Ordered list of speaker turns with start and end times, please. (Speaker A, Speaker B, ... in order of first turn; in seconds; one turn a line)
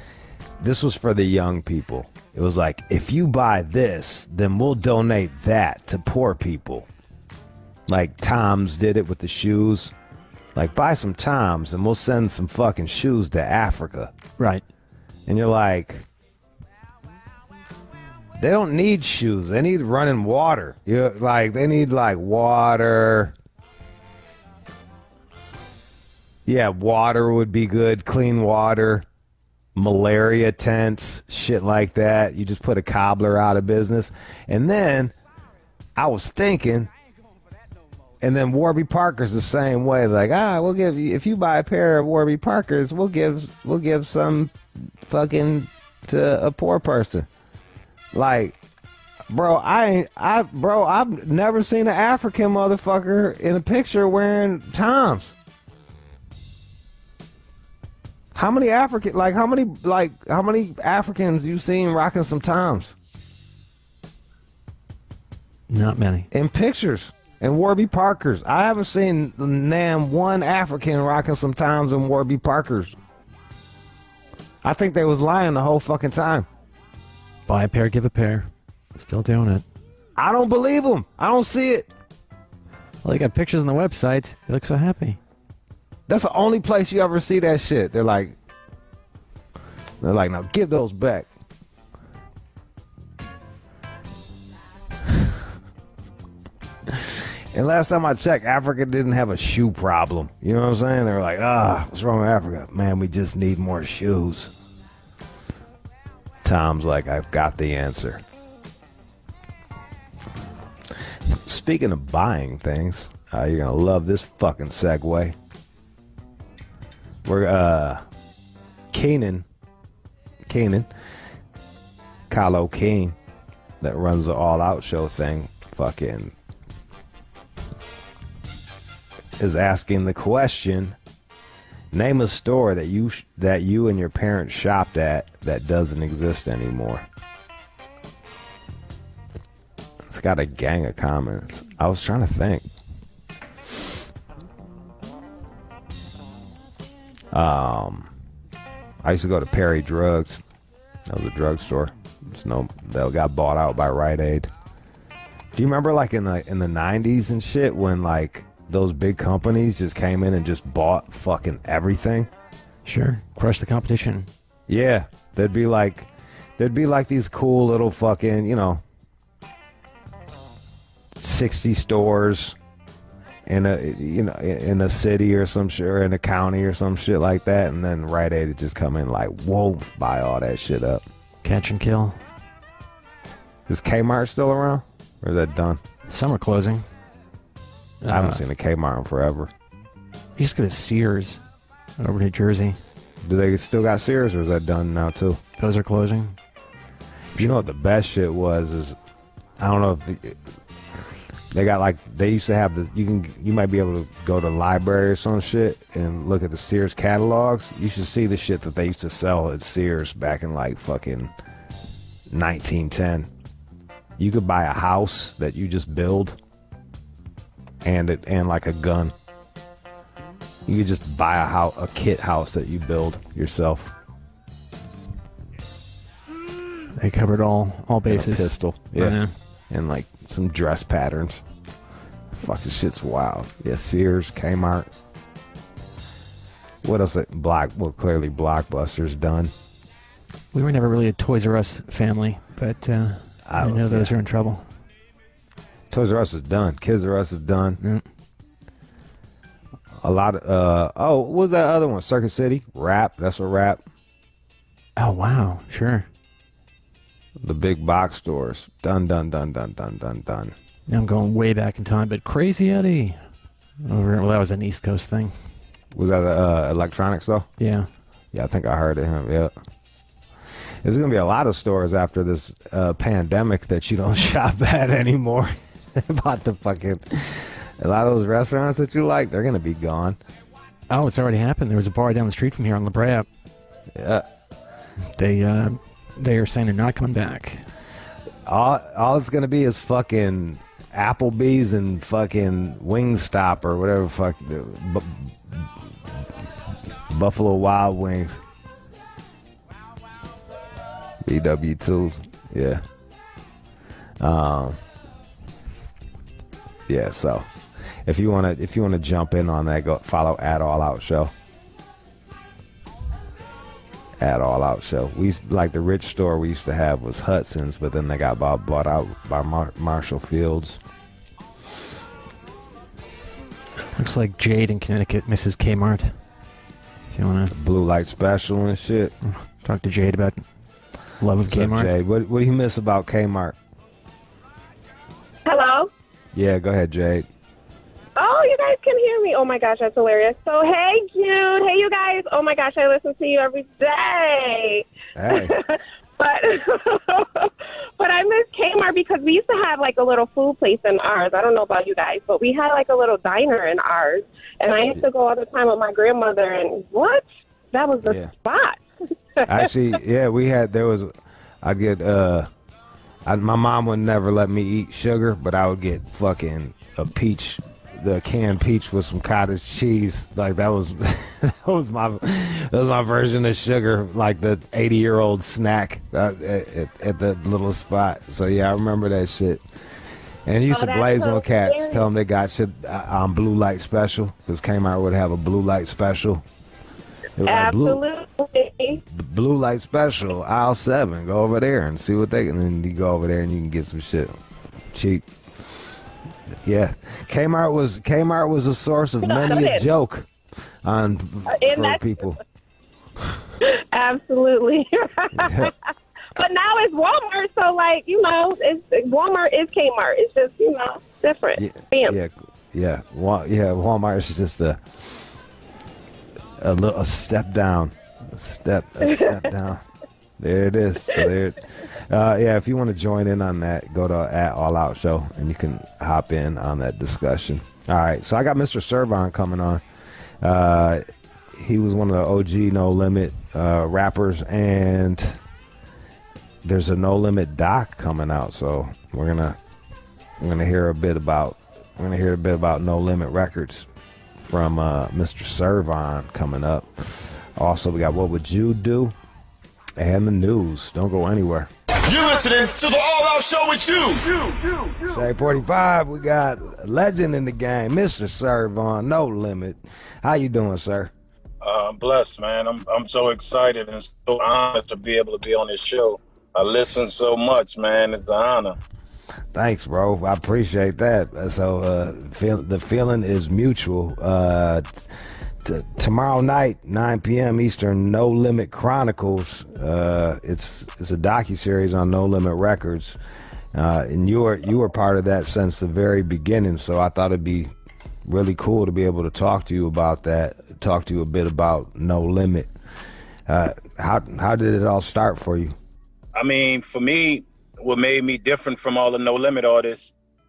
Speaker A: 0.6-6.9
Speaker A: 7.9-9.9
Speaker A: 10.5-14.1
Speaker B: 14.4-14.6
Speaker A: 15.3-16.0
Speaker A: 18.4-23.3
Speaker A: 26.4-29.1
Speaker A: 29.8-35.1
Speaker A: 36.0-36.9
Speaker A: 38.2-47.3
Speaker A: 48.1-48.6
Speaker A: 49.3-55.3
Speaker A: 58.3-62.9
Speaker B: 65.7-66.3
Speaker A: 66.3-73.0
Speaker A: 74.6-76.5
Speaker B: 77.5-79.6
Speaker A: 80.2-81.9
Speaker B: 83.0-85.2
Speaker A: 86.1-88.3
Speaker A: 90.0-91.3
Speaker A: 96.9-104.5
Speaker A: 106.4-108.2
Speaker A: 111.3-115.3
Speaker A: 117.2-118.0
Speaker A: 118.9-119.5
Speaker A: 120.5-120.9
Speaker A: 122.3-123.2
Speaker A: 123.8-126.3
Speaker A: 129.4-130.9
Speaker A: 131.9-137.1
Speaker A: 140.1-142.7
Speaker A: 147.3-148.1
Speaker A: 149.0-150.4
Speaker A: 151.1-154.5
Speaker A: 155.5-162.3
Speaker B: 162.9-164.3
Speaker A: 164.7-168.8
Speaker A: 171.2-172.6
Speaker A: 173.4-181.0
Speaker B: 181.4-182.2
Speaker A: 183.7-185.8
Speaker B: 186.1-186.8
Speaker B: 188.0-188.4
Speaker A: 188.1-189.5
Speaker B: 190.4-191.4
Speaker B: 192.0-192.8
Speaker A: 193.2-195.4
Speaker B: 195.6-196.4
Speaker A: 197.4-199.0
Speaker A: 199.6-200.4
Speaker A: 201.5-211.3
Speaker A: 212.3-213.3
Speaker A: 214.2-216.4
Speaker A: 217.8-219.1
Speaker A: 220.7-223.9
Speaker B: 226.9-229.3
Speaker A: 228.1-231.4
Speaker A: 232.4-234.9
Speaker A: 236.8-239.5
Speaker B: 240.5-244.7
Speaker A: 243.4-244.2
Speaker A: 245.9-247.8
Speaker A: 250.0-253.8
Speaker B: 255.0-256.1
Speaker A: 257.4-260.5
Speaker B: 260.9-263.3
Speaker B: 263.9-265.4
Speaker A: 265.9-267.5
Speaker B: 267.6-267.9
Speaker A: 268.3-269.5
Speaker A: 270.8-280.2
Speaker B: 280.9-283.3
Speaker A: 283.9-284.2
Speaker B: 285.1-287.7
Speaker A: 288.4-295.7
Speaker A: 297.1-298.4
Speaker A: 301.2-302.8
Speaker A: 304.2-304.8
Speaker A: 306.9-307.5
Speaker A: 308.1-311.3
Speaker A: 314.2-320.8
Speaker B: 323.9-326.2
Speaker B: 327.1-327.5
Speaker A: 327.5-329.1
Speaker B: 329.2-330.4
Speaker B: 331.2-331.9
Speaker A: 331.5-333.6
Speaker C: 335.4-335.9
Speaker A: 336.3-337.3
Speaker C: 338.1-358.8
Speaker A: 345.1-345.5
Speaker A: 358.0-358.3
Speaker A: 359.4-362.5
Speaker A: 363.2-379.6
Speaker A: 380.4-386.4
Speaker C: 380.7-382.0
Speaker A: 387.4-388.0
Speaker C: 387.4-389.0
Speaker A: 389.1-394.4
Speaker A: 394.9-395.3
Speaker A: 396.6-400.3
Speaker C: 399.2-399.8
Speaker A: 400.8-402.4
Speaker C: 401.5-402.0
Speaker A: 403.2-403.4
Speaker C: 403.6-405.6
Speaker A: 405.4-405.7
Speaker C: 406.4-412.1
Speaker A: 411.6-415.0
Speaker A: 416.6-419.8
Speaker A: 420.4-429.8
Speaker A: 430.4-435.4
Speaker A: 436.6-439.6
Speaker A: 440.4-449.1
Speaker A: 450.0-451.7
Speaker D: 452.0-455.2
Speaker A: 455.1-461.1
Speaker E: 461.6-468.8
Speaker A: 469.5-475.1
Speaker A: 475.6-483.2
Speaker A: 483.7-487.7
Speaker A: 488.3-492.7
Speaker A: 493.5-495.8
Speaker E: 496.4-500.1